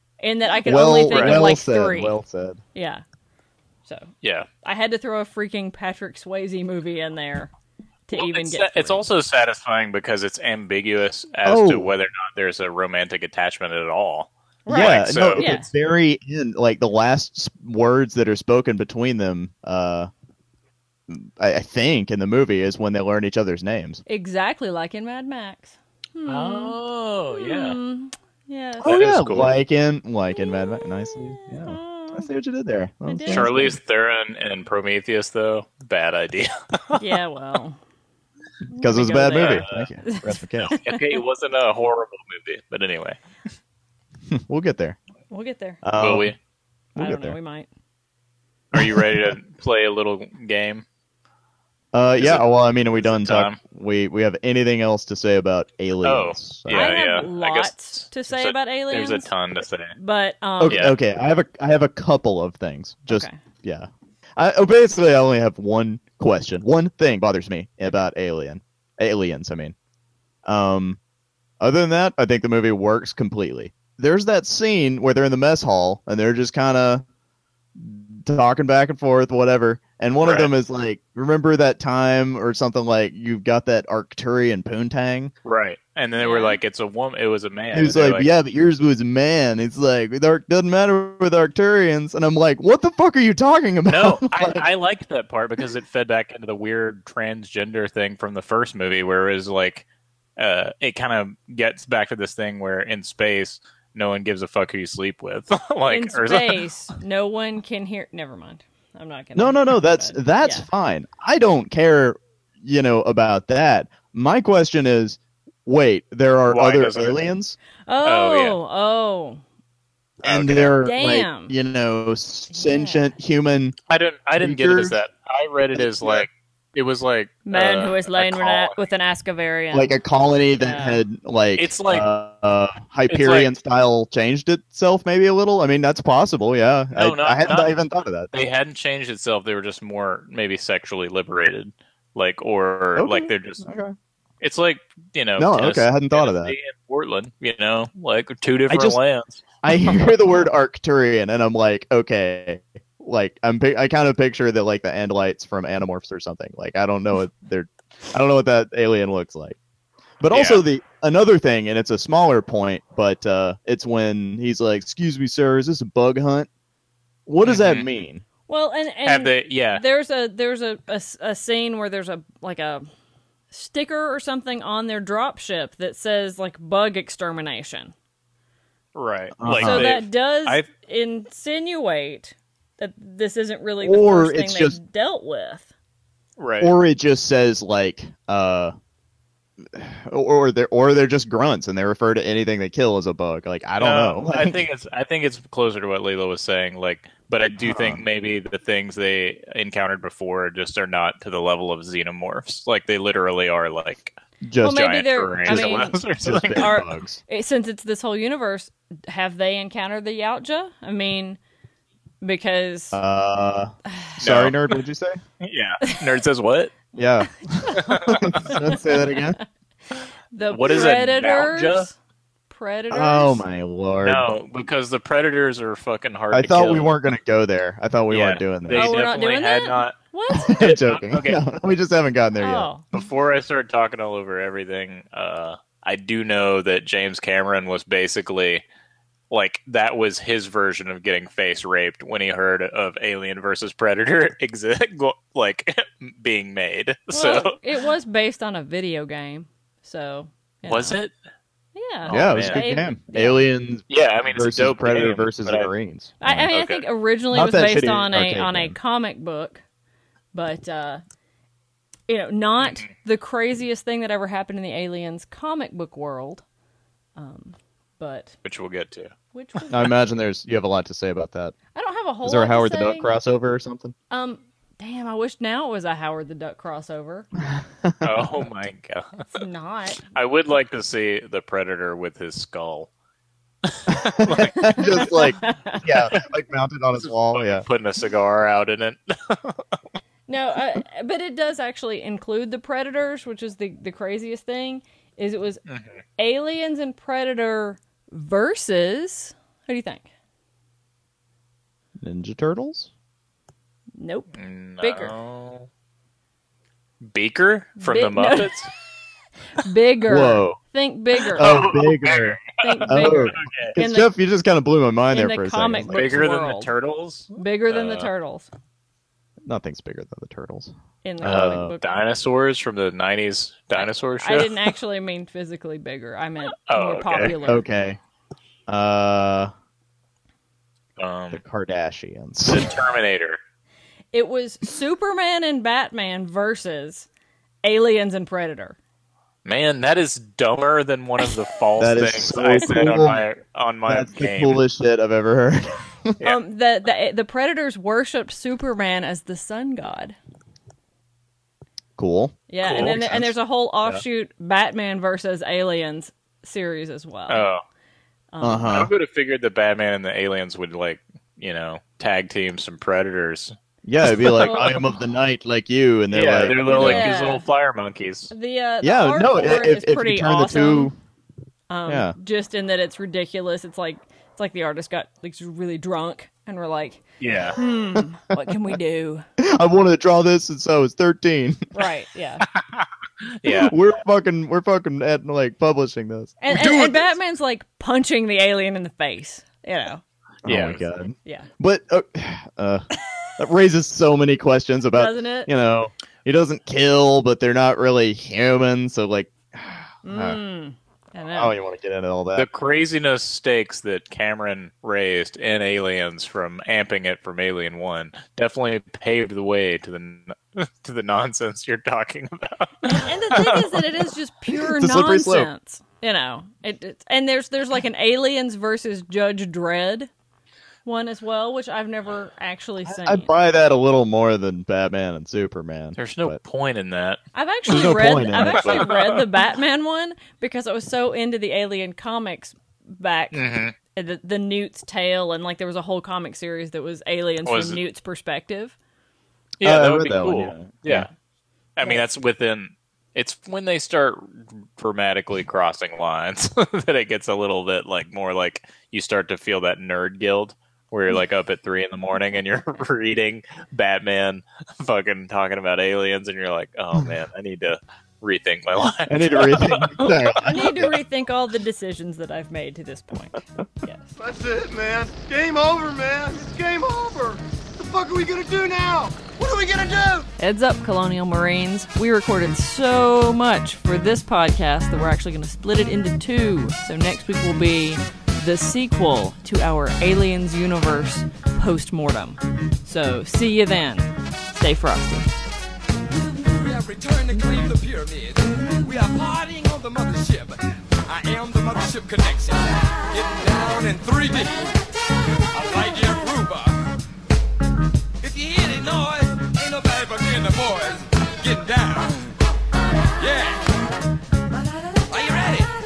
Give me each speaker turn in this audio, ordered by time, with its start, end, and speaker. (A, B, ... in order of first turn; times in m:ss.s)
0:00.2-0:02.1 A
0:00.6-0:02.6 B
0:01.1-0:01.5 C
0:02.8-0:03.0 A
0:04.2-0:04.5 C
0:04.6-0:07.5 A
0:08.1-0:09.0 A
0:08.1-0:15.5 C
0:11.4-0:11.9 B
0:14.6-0:15.7 A
0:14.7-0:20.1 B
0:21.1-0:24.0 B
0:24.1-0:26.8 A
0:26.3-0:27.8 C
0:27.3-0:29.0 A
0:28.8-0:33.7 B
0:28.9-0:29.6 C
0:31.4-0:32.3 A
0:33.1-0:33.8 A
0:33.3-0:37.2 C
0:37.0-0:37.8 A
0:38.7-0:40.7 B
0:38.7-0:41.2 A
0:39.3-0:39.8 C
0:40.6-0:43.2 C
0:44.3-0:45.0 B
0:45.3-0:45.8 A
0:45.8-0:46.4 B
0:46.0-0:46.4 C
0:47.0-0:47.4 B
0:47.0-0:47.7 A
0:48.7-0:50.8 C
0:48.7-0:49.3 B
0:51.9-0:57.0 B
0:52.2-0:53.6 C
0:56.0-1:00.0 C
0:56.7-0:59.3 A
1:00.0-1:00.8 A
1:00.6-1:09.8 B
1:00.7-1:01.0 C
1:03.1-1:03.4 A
1:10.4-1:11.0 B
1:11.6-1:17.0 B
1:17.8-1:25.3 B
1:20.2-1:20.5 C
1:25.4-1:28.3 C
1:26.2-1:26.6 A
1:27.7-1:34.6 B
1:33.9-1:39.8 C
1:40.4-1:46.6 C
1:45.9-1:50.7 A
1:49.4-1:57.6 B
1:56.5-1:57.3 C
1:57.9-1:59.4 A
1:58.0-1:58.6 C
2:00.2-2:00.7 C
2:00.2-2:03.8 B
2:00.8-2:01.6 A
2:02.5-2:03.1 A
2:03.9-2:08.7 C
2:04.4-2:05.0 B
2:05.7-2:06.3 B
2:07.5-2:10.0 A
2:09.7-2:18.3 B
2:10.6-2:11.0 A
2:11.6-2:12.1 C
2:13.1-2:13.5 C
2:17.0-2:17.8 C
2:18.3-2:23.7 C
2:23.0-2:24.0 B
2:24.4-2:29.4 C
2:25.4-2:26.6 B
2:28.7-2:29.0 B
2:29.6-2:39.6 B
2:40.2-2:46.5 B
2:40.3-2:40.6 C
2:47.3-2:48.2 B
2:47.4-2:47.9 C
2:48.5-2:52.9 A
2:49.1-2:49.8 C
2:53.5-2:57.9 A
2:59.0-3:00.7 C
2:59.4-2:59.9 B
2:59.6-3:05.7 A
3:03.8-3:04.8 B
3:06.4-3:06.7 C
3:06.6-3:08.7 B
3:09.6-3:14.6 B
3:13.8-3:26.8 C
3:17.5-3:18.0 B
3:24.4-3:27.2 B
3:24.6-3:26.0 A
3:26.6-3:31.4 A
3:32.2-3:33.0 A
3:32.9-3:35.2 B
3:33.9-3:34.2 A
3:34.2-3:34.6 C
3:35.4-3:36.8 C
3:37.0-3:39.4 B
3:37.7-3:39.3 A
3:37.8-3:38.5 C
3:40.3-3:42.0 A
3:40.5-3:41.9 C
3:42.5-3:43.4 A
3:42.9-3:44.3 B
3:44.0-3:46.9 C
3:46.3-3:48.9 B
3:48.1-3:51.4 C
3:48.7-3:50.6 A
3:50.3-3:52.7 B
3:52.4-3:52.9 A
3:52.9-3:58.6 C
3:59.3-4:07.6 C
4:07.1-4:11.0 A
4:10.7-4:11.1 C
4:11.8-4:13.4 A
4:12.1-4:12.7 C
4:12.1-4:16.5 B
4:13.9-4:15.7 C
4:16.2-4:19.6 A
4:16.5-4:16.8 C
4:17.3-4:18.8 B
4:20.3-4:21.0 A
4:22.1-4:26.4 A
4:22.6-4:22.9 C
4:27.2-4:28.4 A
4:28.4-4:29.1 C
4:29.3-4:29.9 A
4:29.7-4:31.6 B
4:31.8-4:33.1 A
4:32.2-4:34.0 B
4:34.1-4:37.3 A
4:37.5-4:38.2 B
4:38.0-4:39.3 C
4:39.4-4:40.0 A
4:40.1-4:42.9 C
4:43.7-4:45.1 C
4:43.9-4:47.6 B
4:44.8-4:45.8 A
4:47.0-4:49.8 C
4:50.3-4:55.6 A
4:55.7-4:56.0 C
4:56.2-5:00.1 A
5:02.0-5:02.9 B
5:04.0-5:05.2 A
5:04.4-5:05.7 C
5:07.0-5:08.7 C
5:07.8-5:08.6 A
5:09.6-5:11.7 A
5:10.1-5:10.6 B
5:11.2-5:13.8 C
5:11.4-5:16.2 B
5:12.6-5:14.1 A
5:15.1-5:16.7 A
5:15.9-5:18.1 C
5:17.4-5:18.5 A
5:19.4-5:21.8 B
5:21.0-5:21.8 A
5:21.2-5:24.7 C
5:23.7-5:27.7 A
5:26.7-5:27.4 C
5:27.4-5:28.0 B
5:28.7-5:29.5 B
5:31.0-5:31.4 C
5:31.3-5:32.6 B
5:32.5-5:33.4 C
5:34.1-5:37.1 A
5:37.6-5:38.8 A
5:39.4-5:44.6 C
5:41.8-5:43.2 B
5:43.9-5:46.2 B
5:46.2-5:50.2 A
5:52.0-5:53.3 B
5:52.5-5:57.4 A
5:52.6-5:53.1 C
5:57.3-5:57.6 C
5:58.3-5:58.8 A
5:58.4-5:58.9 B
5:58.7-6:04.8 C
6:03.8-6:07.1 B
6:04.4-6:04.7 A
6:06.1-6:08.3 C
6:06.6-6:07.4 A
6:08.3-6:10.9 A
6:08.8-6:11.0 B
6:11.7-6:17.0 A
6:11.9-6:12.2 B
6:17.2-6:17.6 C
6:17.5-6:19.3 A
6:18.5-6:18.8 B
6:19.4-6:21.7 B
6:21.7-6:22.5 A
6:22.5-6:22.9 C
6:23.4-6:23.8 C
6:23.4-6:27.0 B
6:26.4-6:30.0 A
6:30.4-6:30.8 C
6:30.4-6:32.9 B
6:33.4-6:40.4 B
6:35.0-6:35.5 A
6:40.0-6:41.6 A
6:41.3-6:42.5 B
6:42.4-6:53.8 C
6:52.8-7:00.1 A
6:54.5-6:55.5 B
7:00.9-7:03.3 A
7:02.8-7:06.4 B
7:06.0-7:07.2 C
7:07.4-7:18.8 A
7:07.7-7:08.9 B
7:07.7-7:09.2 C
7:13.3-7:13.8 C
7:17.4-7:17.8 C
7:19.6-7:21.1 C
7:19.6-7:21.1 B
7:21.8-7:40.2 C
7:39.1-7:41.0 B
7:40.4-7:44.0 A
7:44.6-7:47.4 D
7:47.9-7:49.1 D
7:50.4-8:05.3 A
8:07.2-8:07.6 E
8:15.6-8:16.6 E
8:25.2-8:25.6 E